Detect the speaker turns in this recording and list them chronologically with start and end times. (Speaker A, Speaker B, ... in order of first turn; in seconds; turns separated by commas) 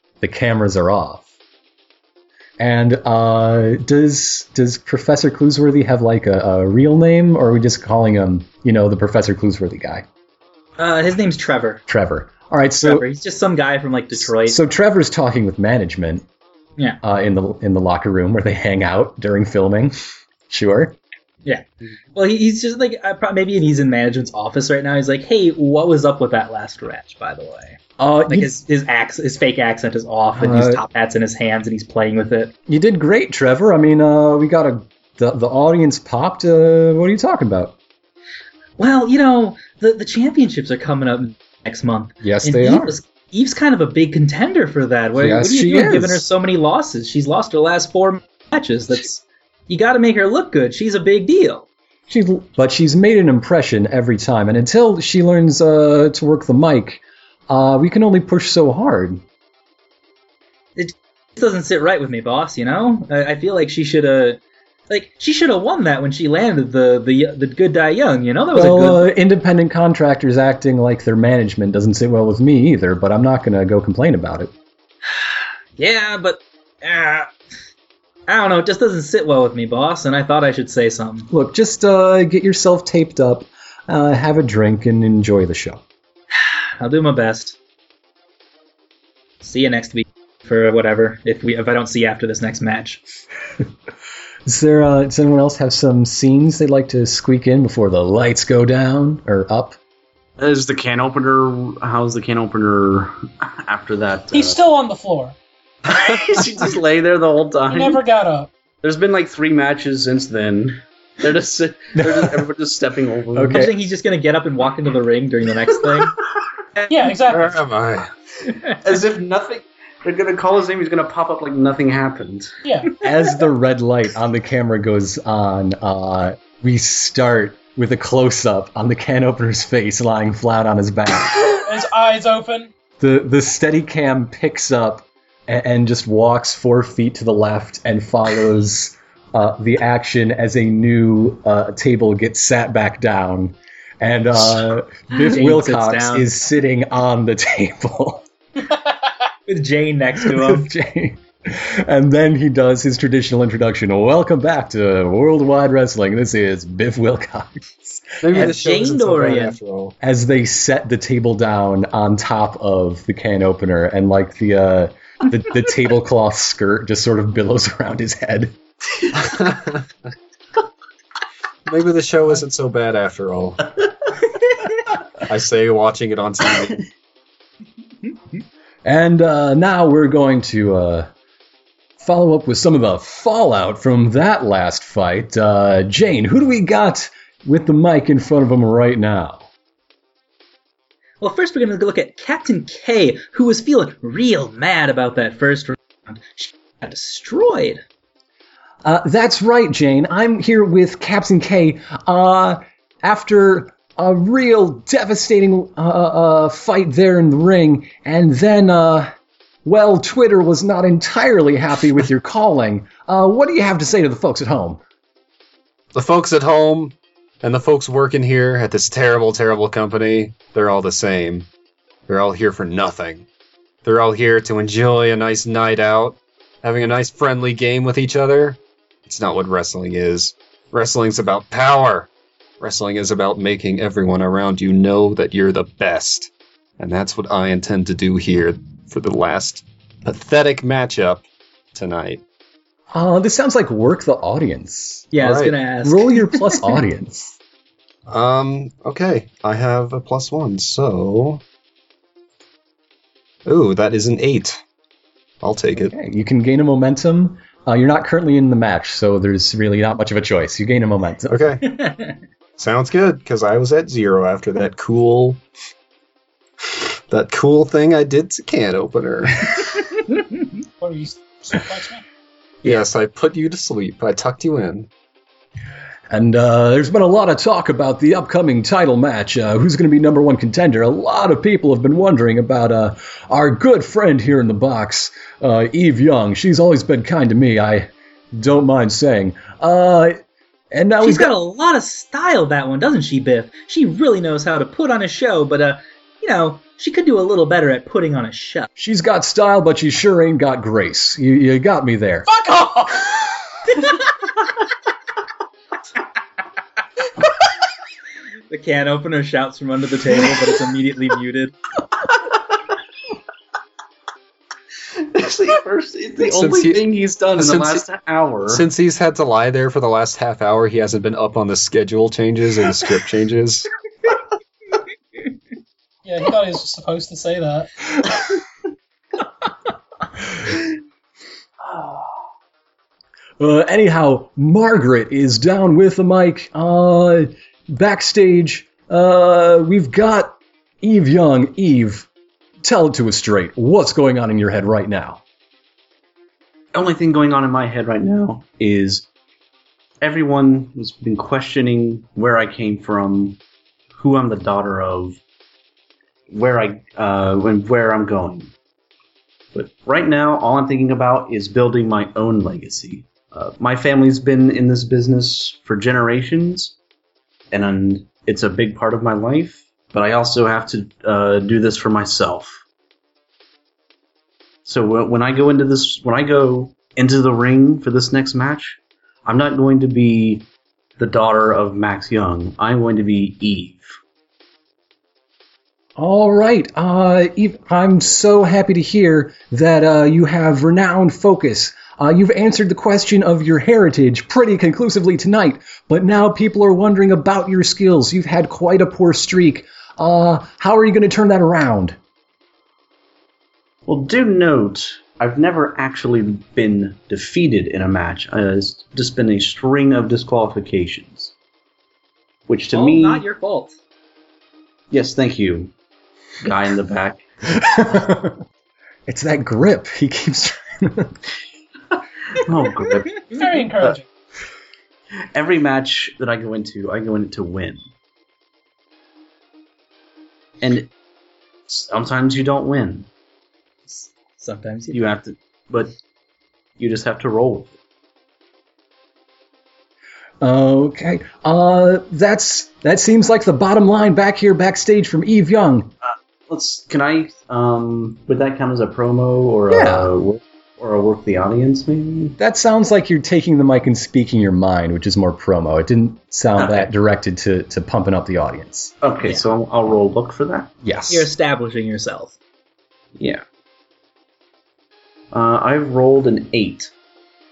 Speaker A: 0.2-1.2, Speaker A: 2.6-10.1, Speaker B: 10.8-11.8, Speaker A: 11.9-13.1, Speaker B: 12.8-14.6, Speaker A: 14.2-16.2, Speaker A: 17.0-19.9, Speaker A: 20.5-21.0, Speaker B: 21.4-32.5, Speaker A: 28.0-28.5, Speaker A: 30.4-30.8, Speaker A: 32.7-37.8, Speaker B: 38.8-51.7, Speaker A: 42.2-43.0, Speaker A: 45.2-46.2, Speaker A: 52.1-59.2, Speaker B: 60.8-69.1, Speaker A: 68.5-74.5, Speaker B: 75.8-77.3, Speaker B: 78.3-81.3, Speaker A: 81.3-85.8, Speaker B: 86.8-87.6, Speaker B: 89.4-93.0, Speaker A: 94.5-99.8, Speaker C: 100.4-104.6, Speaker D: 104.3-105.3, Speaker C: 105.9-108.0, Speaker D: 107.7-108.5, Speaker C: 108.8-113.7, Speaker A: 112.0-112.5, Speaker A: 113.3-113.7, Speaker B: 113.5-116.2, Speaker D: 116.9-117.6, Speaker E: 117.3-118.1, Speaker C: 118.7-122.6, Speaker D: 122.6-123.0, Speaker A: 123.0-131.5, Speaker D: 131.4-132.7, Speaker A: 133.0-148.2, Speaker B: 145.1-146.3, Speaker B: 149.5-150.7, Speaker A: 150.2-158.5, Speaker E: 158.2-159.9, Speaker B: 158.3-159.6, Speaker A: 160.0-168.6, Speaker E: 169.2-169.9, Speaker E: 171.7-173.7, Speaker E: 175.2-176.9, Speaker A: 178.8-181.1, Speaker A: 182.0-189.5, Speaker B: 191.2-197.8, Speaker A: 198.8-209.1, Speaker A: 209.7-214.8, Speaker E: 215.9-221.5, Speaker E: 222.1-223.3, Speaker E: 223.8-232.1, Speaker E: 232.6-242.2, Speaker A: 242.9-245.2, Speaker B: 245.1-246.7, Speaker E: 245.2-245.5, Speaker A: 245.8-247.4, Speaker E: 248.1-251.4, Speaker E: 253.4-254.6, Speaker E: 255.4-255.9, Speaker A: 255.8-261.4, Speaker E: 261.3-261.8, Speaker E: 262.6-265.4, Speaker E: 266.7-269.7, Speaker D: 270.8-272.0, Speaker E: 272.6-274.9, Speaker A: 276.1-290.2, Speaker A: 290.7-291.3, Speaker B: 291.0-298.7, Speaker A: 298.8-302.3, Speaker D: 302.4-303.0, Speaker B: 308.5-311.6, Speaker C: 315.0-318.6, Speaker E: 316.2-317.8, Speaker E: 318.5-323.7, Speaker D: 326.0-327.7, Speaker A: 333.4-342.1, Speaker A: 342.6-345.2, Speaker C: 346.7-349.1, Speaker C: 350.0-353.4, Speaker C: 354.0-355.2, Speaker C: 356.3-358.5, Speaker C: 359.5-366.8, Speaker C: 367.5-372.6, Speaker C: 374.6-380.5, Speaker C: 381.0-384.0, Speaker A: 386.0-402.0, Speaker C: 403.9-411.3, Speaker C: 412.5-413.2, Speaker B: 412.7-413.8, Speaker C: 414.9-415.7, Speaker C: 416.4-417.2, Speaker A: 417.5-418.4, Speaker A: 419.1-421.2, Speaker C: 422.4-424.0, Speaker D: 423.3-424.1, Speaker C: 425.3-427.8, Speaker C: 430.6-430.9, Speaker C: 431.7-433.1, Speaker B: 433.9-435.0, Speaker C: 434.9-435.9, Speaker C: 436.8-437.7, Speaker A: 440.4-445.9, Speaker C: 446.1-452.4, Speaker A: 449.7-450.1, Speaker A: 452.4-458.9, Speaker C: 456.6-456.9, Speaker C: 459.0-460.7, Speaker A: 460.8-461.3, Speaker B: 461.1-462.3, Speaker C: 463.2-463.4, Speaker C: 465.3-466.9